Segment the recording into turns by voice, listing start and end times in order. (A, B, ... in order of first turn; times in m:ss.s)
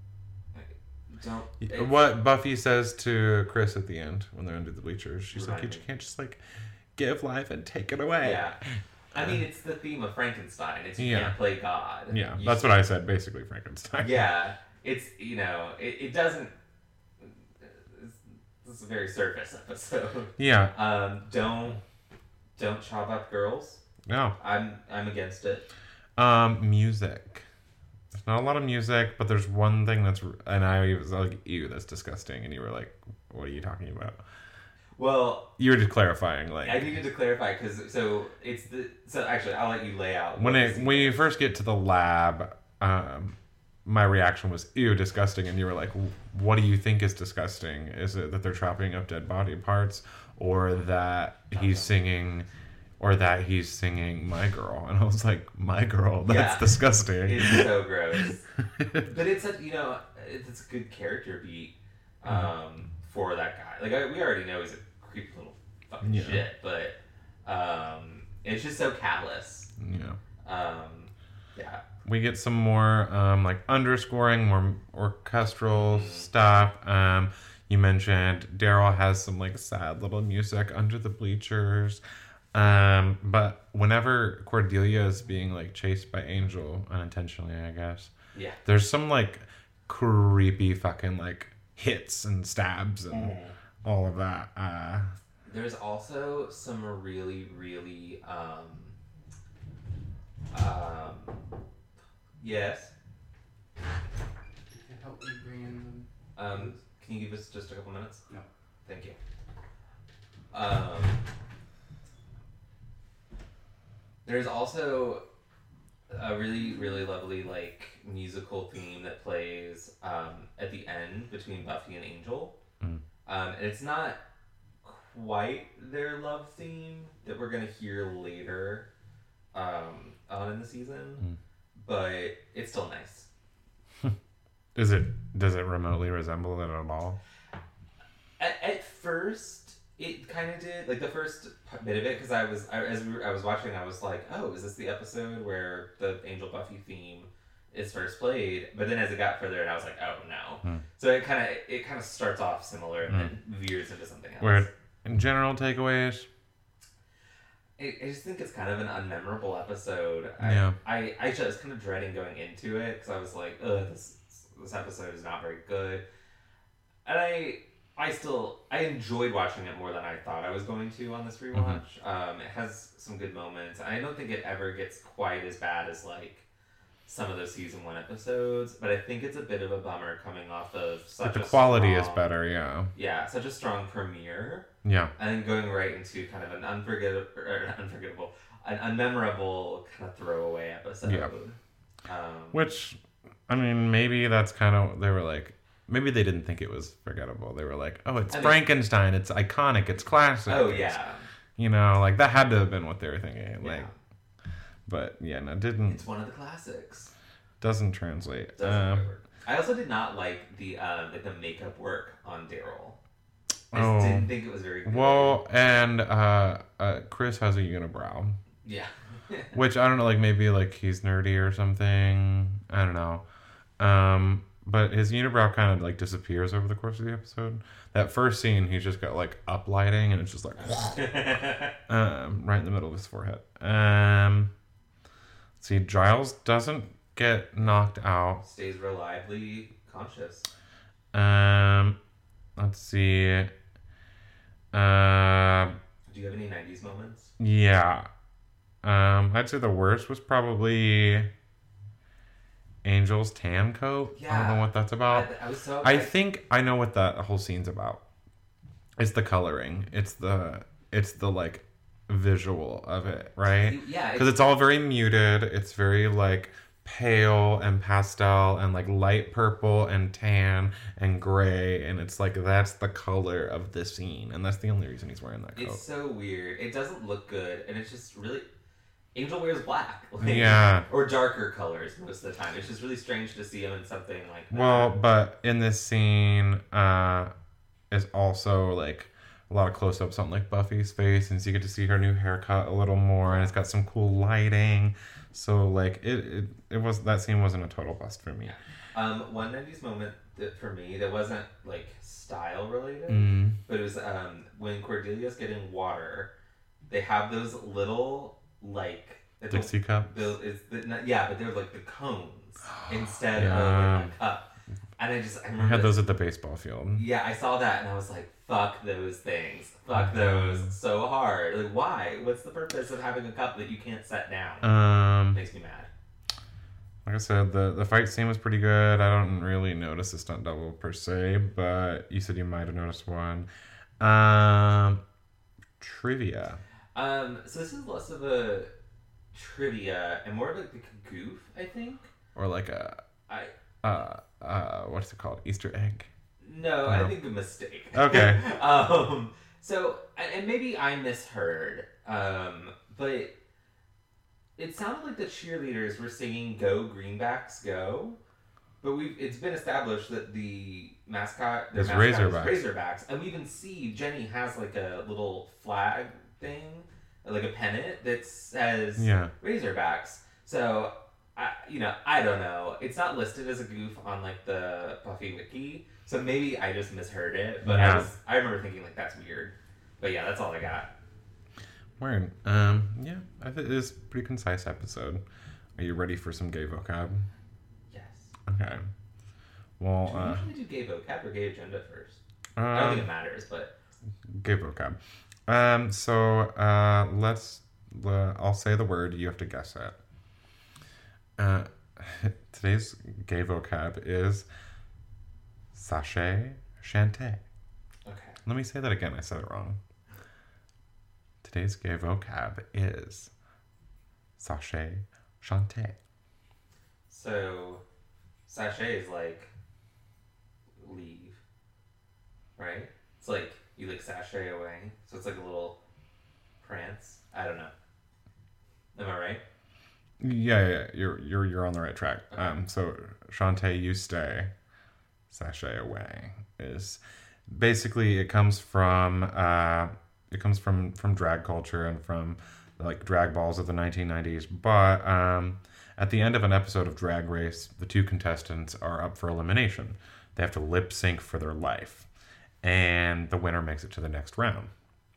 0:00.5-0:02.0 A
0:01.6-0:06.4 B
0:05.3-0:05.8 A
0:07.0-0:09.4 B
0:08.2-0:08.6 A
0:09.1-0:12.8 A
0:11.0-0:11.4 B
0:12.1-0:14.3 B
0:14.0-0:16.6 A
0:17.2-0:21.8 A
0:20.4-0:20.7 B
0:22.6-0:23.8 A
0:24.1-0:24.4 B
0:24.4-0:25.7 A
0:26.2-0:27.5 B
0:28.1-0:34.2 B
0:35.0-0:35.5 A
0:35.6-0:36.9 B
0:36.6-0:41.2 A
0:40.4-0:52.5 B
0:51.5-0:52.0 A
0:53.0-0:57.7 B
0:56.2-0:58.4 A
0:58.8-0:59.1 B
0:59.0-1:09.7 A
1:06.0-1:06.4 B
1:09.8-1:10.2 B
1:10.4-1:11.8 A
1:12.0-1:22.0 B
1:15.7-1:16.3 A
1:22.5-1:28.1 B
1:28.3-1:28.6 A
1:28.6-1:35.1 B
1:35.4-1:39.0 A
1:40.5-1:41.4 A
1:42.4-1:42.9 A
1:44.7-1:46.8 C
1:46.4-1:48.2 A
1:48.9-1:49.2 A
1:50.5-1:51.2 A
1:54.2-1:55.2 A
1:56.1-2:02.6 A
2:03.3-2:04.2 A
2:04.8-2:08.9 A
2:09.5-2:11.2 A
2:11.8-2:13.3 A
2:14.8-2:17.2 B
2:18.4-2:34.7 A
2:34.4-2:36.3 B
2:37.8-2:46.0 A
2:40.4-2:40.8 B
2:47.0-2:56.4 A
2:51.5-2:51.8 B
2:57.1-3:02.2 A
3:01.2-3:02.9 B
3:03.0-3:12.7 A
3:04.8-3:05.1 B
3:11.0-3:11.3 B
3:12.5-3:21.0 B
3:18.3-3:18.6 A
3:20.5-3:21.3 A
3:21.6-3:23.9 B
3:23.6-3:24.0 A
3:24.9-3:26.0 B
3:25.9-3:27.1 A
3:27.6-3:29.0 B
3:28.6-3:33.0 A
3:33.7-3:34.3 B
3:33.7-3:35.5 A
3:34.8-3:38.4 B
3:38.6-3:39.6 A
3:39.5-3:43.2 B
3:43.8-3:51.3 B
3:50.7-3:51.8 A
3:51.9-3:54.5 B
3:55.6-3:58.4 B
3:58.4-4:00.5 A
4:01.1-4:02.0 B
4:02.6-4:03.5 B
4:04.7-4:05.8 B
4:06.1-4:07.3 A
4:07.4-4:08.1 B
4:08.8-4:11.3 B
4:12.8-4:15.3 B
4:14.1-4:16.1 A
4:15.8-4:18.0 B
4:19.0-4:35.8 B
4:23.6-4:24.4 A
4:35.6-4:38.5 A
4:39.2-4:45.0 A
4:40.2-4:40.9 B
4:44.5-4:47.3 B
4:47.9-4:58.6 B
4:53.2-4:53.5 A
4:58.4-5:06.3 A
5:03.1-5:03.6 B
5:06.9-5:14.5 A
5:09.5-5:10.3 B
5:13.3-5:14.1 B
5:15.0-5:16.0 A
5:15.6-5:17.1 B
5:17.0-5:24.8 A
5:20.0-5:20.7 B
5:24.6-5:25.4 B
5:25.3-5:25.9 A
5:27.0-5:33.5 B
5:34.0-5:35.0 B
5:35.8-5:36.6 B
5:36.9-5:38.7 A
5:39.3-5:42.1 A
5:42.4-5:43.0 B
5:43.8-5:46.1 B
5:46.4-5:53.3 A
5:46.8-5:47.1 B
5:47.9-5:48.4 B
5:54.6-5:58.2 A
5:58.8-6:20.9 A
6:01.7-6:02.6 B
6:09.0-6:09.3 B
6:17.6-6:18.1 B
6:22.0-6:25.2 B
6:25.8-6:27.3 B
6:27.9-6:28.3 A
6:28.5-6:28.8 B
6:29.8-6:30.5 B
6:30.0-6:33.7 A
6:32.6-6:33.1 B
6:34.3-6:40.0 B
6:41.4-6:44.5 B
6:45.7-6:47.4 B
6:48.1-6:48.4 A
6:48.4-6:49.8 B
6:51.4-6:53.3 B
6:54.4-6:56.0 B
6:57.1-6:57.8 A
6:58.5-6:59.5 A
7:00.8-7:01.4 A
7:02.6-7:05.8 A
7:06.6-7:07.7 A
7:09.0-7:09.4 A
7:10.2-7:14.5 B
7:15.3-7:32.1 B
7:32.6-7:34.7 B